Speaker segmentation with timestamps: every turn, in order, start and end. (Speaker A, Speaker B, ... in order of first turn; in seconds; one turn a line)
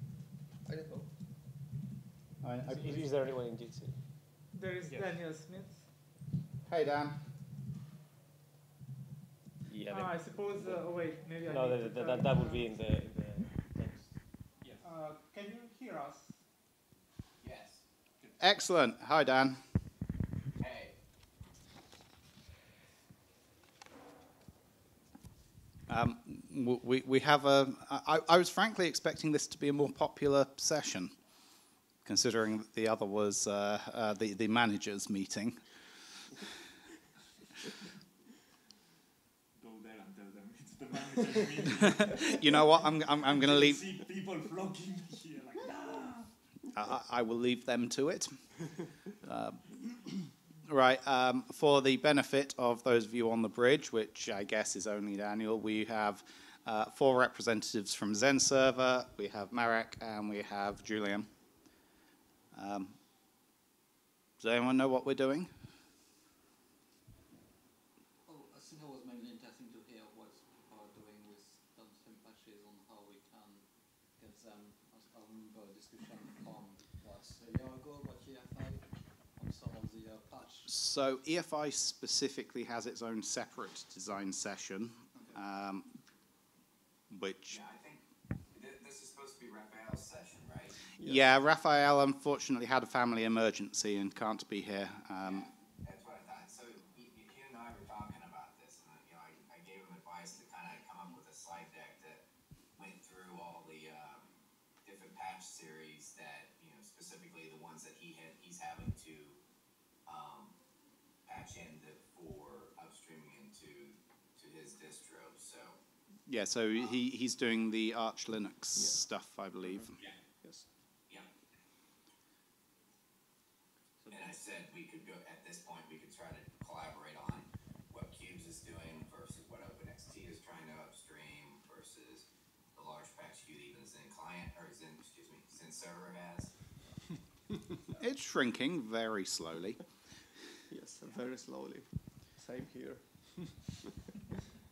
Speaker A: 0.7-1.1
Speaker B: 2.4-3.1
Speaker C: 2.6-3.9
Speaker D: 4.5-5.8
Speaker C: 4.8-5.2
Speaker B: 6.7-7.2
Speaker C: 9.7-10.9
Speaker D: 9.9-12.6
Speaker C: 11.4-14.8
Speaker D: 14.8-16.3
Speaker E: 17.4-17.8
Speaker B: 18.4-19.6
Speaker E: 20.6-20.9
Speaker B: 25.9-31.1
Speaker B: 32.0-35.6
Speaker F: 39.6-46.3
Speaker B: 41.8-43.8
Speaker B: 46.7-50.1
Speaker B: 50.7-61.3
Speaker B: 62.5-63.0
Speaker B: 64.4-65.5
Speaker G: 68.2-80.7
Speaker B: 80.7-85.9
Speaker B: 87.1-87.6
Speaker E: 87.5-90.8
Speaker A: 91.0-91.2
Speaker B: 91.0-95.5
Speaker E: 95.2-102.2
Speaker E: 102.8-104.3
Speaker E: 104.8-109.4
Speaker E: 110.0-110.5
Speaker E: 111.2-115.8
Speaker B: 116.3-120.0
Speaker E: 124.1-136.5
Speaker B: 138.0-139.8
Speaker A: 140.7-143.7